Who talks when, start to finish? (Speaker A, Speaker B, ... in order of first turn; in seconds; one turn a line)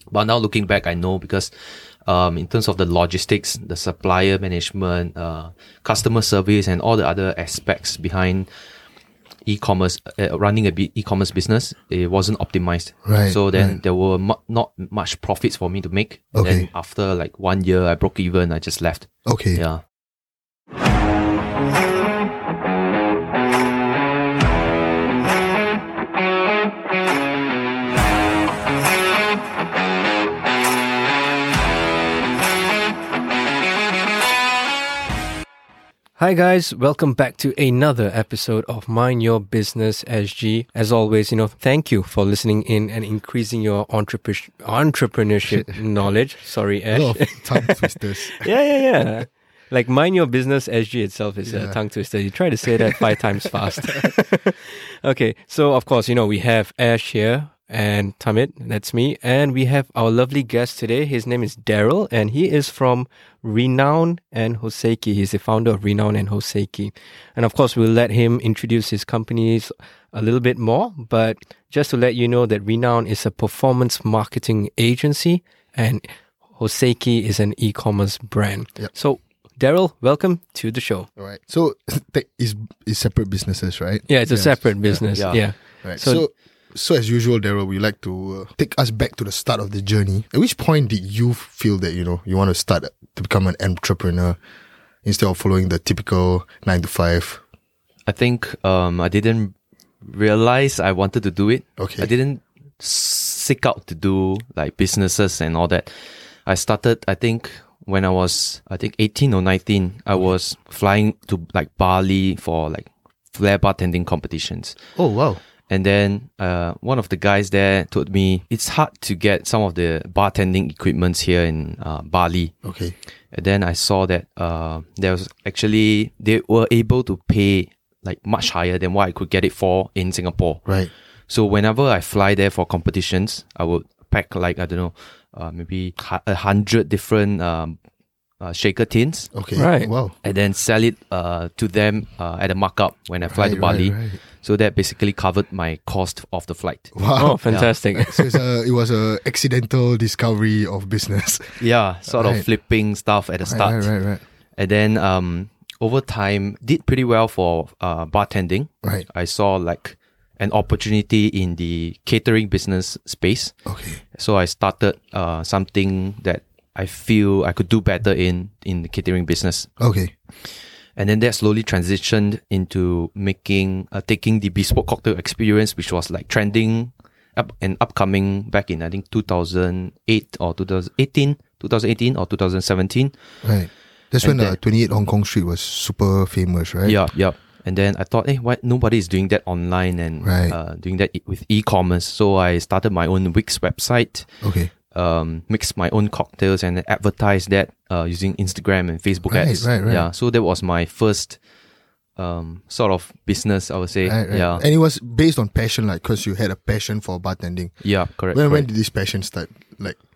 Speaker A: 0.1-8.5
Speaker A: 9.4-19.8
Speaker B: 13.0-13.8
Speaker B: 16.3-16.7
Speaker B: 19.2-19.6
Speaker C: 36.2-81.1
Speaker B: 45.5-45.8
Speaker B: 46.9-48.5
Speaker B: 51.5-51.8
Speaker B: 81.2-94.4
Speaker C: 84.1-86.2
Speaker A: 85.1-85.4
Speaker B: 95.0-97.4
Speaker A: 98.1-114.8
Speaker B: 101.8-102.1
Speaker B: 115.0-115.4
Speaker A: 115.7-122.5
Speaker B: 122.6-122.9
Speaker A: 123.3-130.7
Speaker B: 130.7-130.9
Speaker A: 131.3-137.8
Speaker A: 138.4-139.3
Speaker B: 139.3-140.2
Speaker C: 139.6-139.9
Speaker A: 140.2-147.7
Speaker B: 143.3-144.2
Speaker B: 146.9-152.4
Speaker C: 147.2-148.4
Speaker A: 151.6-153.9
Speaker B: 153.4-154.2
Speaker A: 154.6-163.5
Speaker B: 163.7-164.0
Speaker A: 164.1-169.7
Speaker B: 169.8-170.1
Speaker A: 170.9-183.1
Speaker B: 183.4-187.0
Speaker A: 184.2-184.6
Speaker A: 186.8-194.3
Speaker B: 190.2-190.6
Speaker B: 194.4-194.7
Speaker A: 194.9-201.4
Speaker B: 199.3-200.1
Speaker A: 202.2-204.6
Speaker B: 204.0-207.8
Speaker A: 207.8-208.7
Speaker B: 208.3-210.0